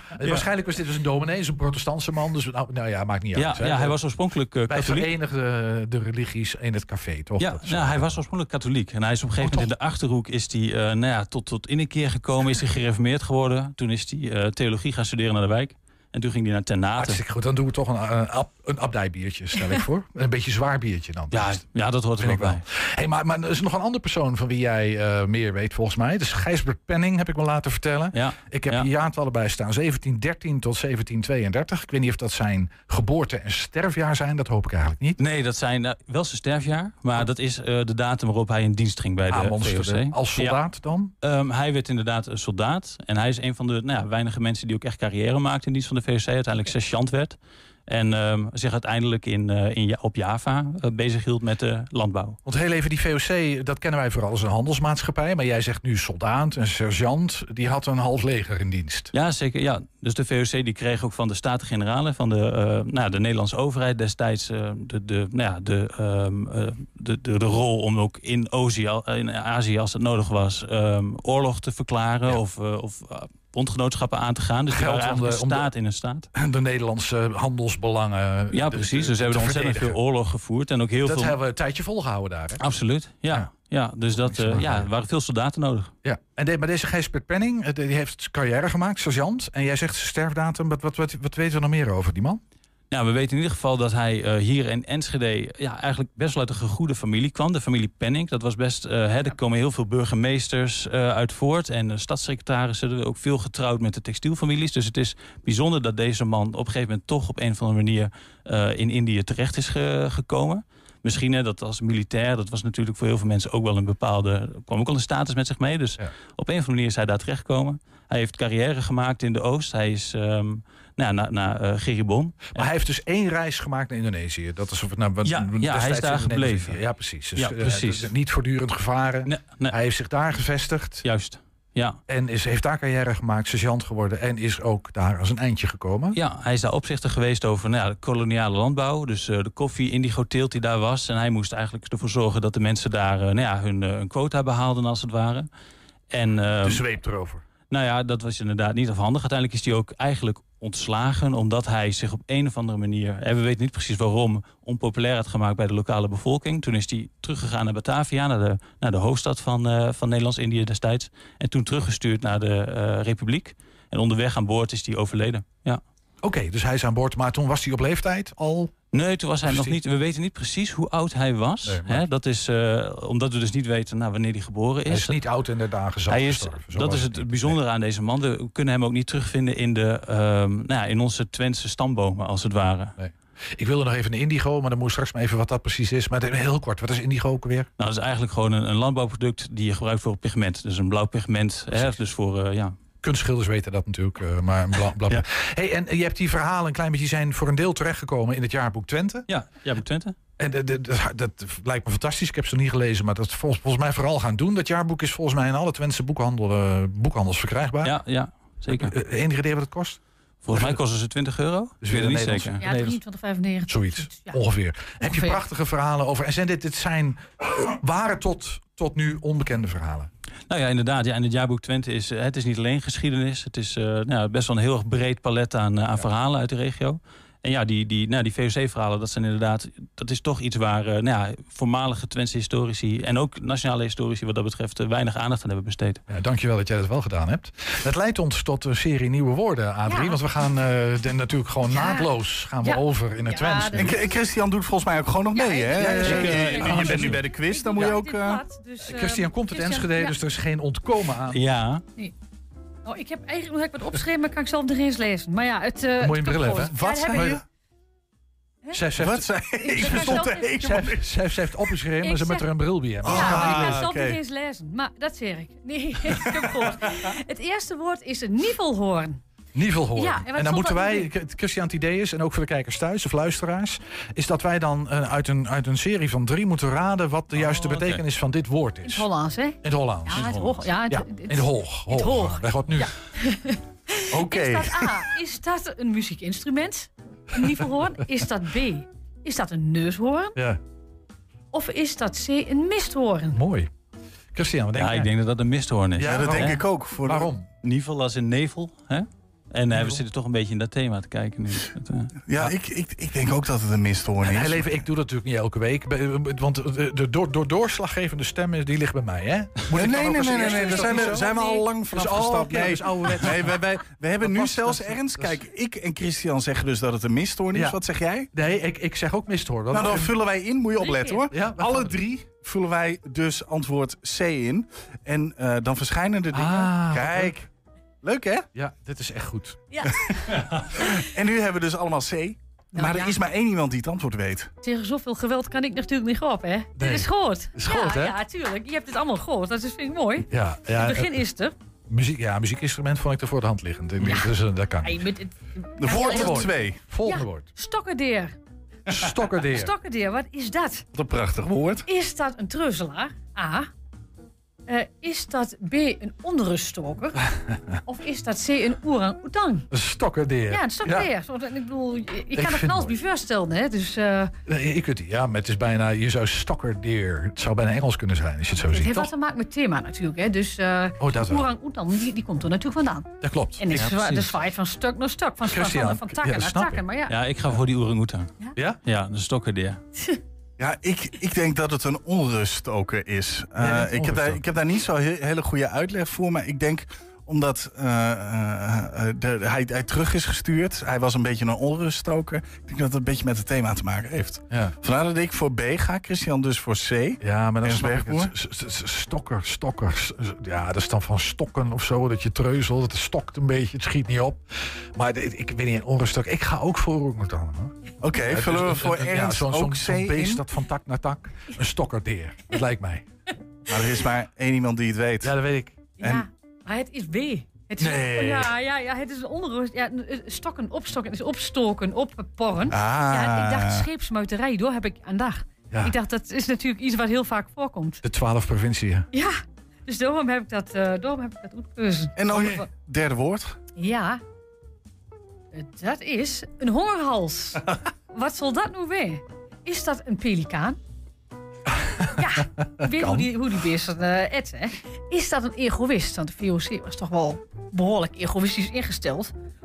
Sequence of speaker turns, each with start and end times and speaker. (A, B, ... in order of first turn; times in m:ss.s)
0:00.2-0:04.0 A
0:03.3-0:05.1 B
0:04.7-0:08.2 A
0:07.4-0:17.2 B
0:09.4-0:09.7 A
0:17.0-0:21.6 A
0:21.3-0:22.6 B
0:22.2-0:35.2 A
0:28.1-0:28.9 B
0:35.2-0:40.6 B
0:39.3-0:41.1 A
0:41.2-0:47.4 B
0:47.9-0:52.4 B
0:52.4-0:59.1 A
0:59.1-1:16.3 B
1:14.7-1:15.7 A
1:16.3-1:20.0 A
1:18.5-1:21.3 B
1:21.0-1:22.6 A
1:22.6-1:25.9 B
1:24.1-1:24.9 A
1:26.0-1:32.4 A
1:32.9-2:02.6 B
2:02.5-2:11.0 A
2:05.2-2:06.8 B
2:07.4-2:08.1 B
2:09.2-2:09.7 B
2:11.0-2:12.0 B
2:12.1-2:16.2 A
2:16.1-2:25.5 B
2:26.1-2:26.8 B
2:26.6-2:27.4 A
2:27.7-2:45.8 B
2:46.2-2:48.7 A
2:48.9-2:55.2 B
2:49.4-2:49.8 A
2:51.6-2:52.0 A
2:54.9-2:57.6 A
2:56.1-3:03.0 B
3:03.0-3:07.7 A
3:07.8-3:12.8 B
3:11.7-3:12.0 A
3:13.0-3:19.3 A
3:19.3-3:20.2 B
3:20.4-3:28.0 A
3:27.8-3:28.9 B
3:28.7-3:30.0 A
3:30.4-3:32.8 B
3:30.5-3:30.8 A
3:31.8-3:33.0 A
3:32.6-3:34.4 C
3:33.7-3:40.1 A
3:35.0-3:35.4 C
3:40.5-3:56.0 B
3:56.1-4:04.0 A
3:59.9-4:00.2 C
4:01.7-4:04.2 C
4:03.7-4:08.4 D
4:05.3-4:10.2 C
4:05.8-4:07.3 A
4:08.8-4:11.4 A
4:11.3-4:11.8 B
4:12.8-4:17.4 C
4:16.0-4:17.4 A
4:16.7-4:17.4 D
4:18.7-4:23.8 A
4:19.0-4:21.0 D
4:19.7-4:20.6 C
4:22.0-4:22.5 C
4:23.0-4:29.2 C
4:23.0-4:24.2 D
4:26.2-4:26.7 D
4:29.6-4:39.1 A
4:30.0-4:31.1 C
4:37.3-4:38.0 B
4:38.8-4:50.4 C
4:39.6-4:42.9 A
4:40.1-4:40.6 B
4:44.1-4:44.9 A
4:50.3-4:50.6 A
4:51.5-4:53.4 C
4:53.3-4:53.7 A
4:54.3-4:55.1 A
4:54.7-4:56.7 B
4:56.0-4:57.4 A
4:56.0-4:57.3 D
4:57.6-5:02.1 B
5:02.3-5:04.6 D
5:04.2-5:11.4 A
5:09.7-5:18.3 D
5:10.4-5:11.7 C
5:11.9-5:13.7 A
5:14.2-5:15.4 A
5:18.3-5:20.1 A
5:19.7-5:27.5 D
5:20.8-5:21.3 C
5:21.3-5:22.1 A
5:26.3-5:27.4 A
5:28.0-5:28.5 D
5:28.5-5:29.7 A
5:29.7-5:30.1 C
5:30.3-5:34.5 D
5:32.7-5:33.2 C
5:34.6-5:41.5 C
5:36.8-5:38.2 A
5:40.3-5:41.2 A
5:41.9-5:45.1 A
5:44.8-5:46.5 C
5:45.8-5:46.8 D
5:45.9-5:47.5 A
5:47.0-5:48.4 C
5:48.9-5:49.7 A
5:49.4-5:50.9 C
5:50.9-5:51.9 D
5:51.9-5:53.7 C
5:54.7-5:57.2 C
5:57.9-5:59.7 C
5:59.7-6:01.1 A
6:00.5-6:04.3 C
6:02.3-6:03.0 A
6:04.5-6:09.1 A
6:08.6-6:13.1 C
6:11.0-6:11.4 A
6:13.2-6:14.3 A
6:13.6-6:17.1 C
6:15.4-6:16.8 A
6:17.1-6:19.8 B
6:20.6-6:38.3 D
6:23.6-6:24.4 A
6:37.2-6:44.4 A
6:45.0-6:47.7 A
6:48.0-6:50.4 D
6:48.3-6:53.1 A
6:53.7-6:55.4 D
6:55.2-6:55.9 A
6:56.0-7:08.0 C
6:56.0-6:56.3 D
6:57.8-6:58.5 A
7:02.7-7:03.9 D
7:08.0-7:09.1 A
7:09.1-7:12.7 C
7:12.2-7:13.6 D
7:13.7-7:14.2 C
7:15.5-7:20.8 C
7:22.2-7:29.3 C
7:22.8-7:23.3 A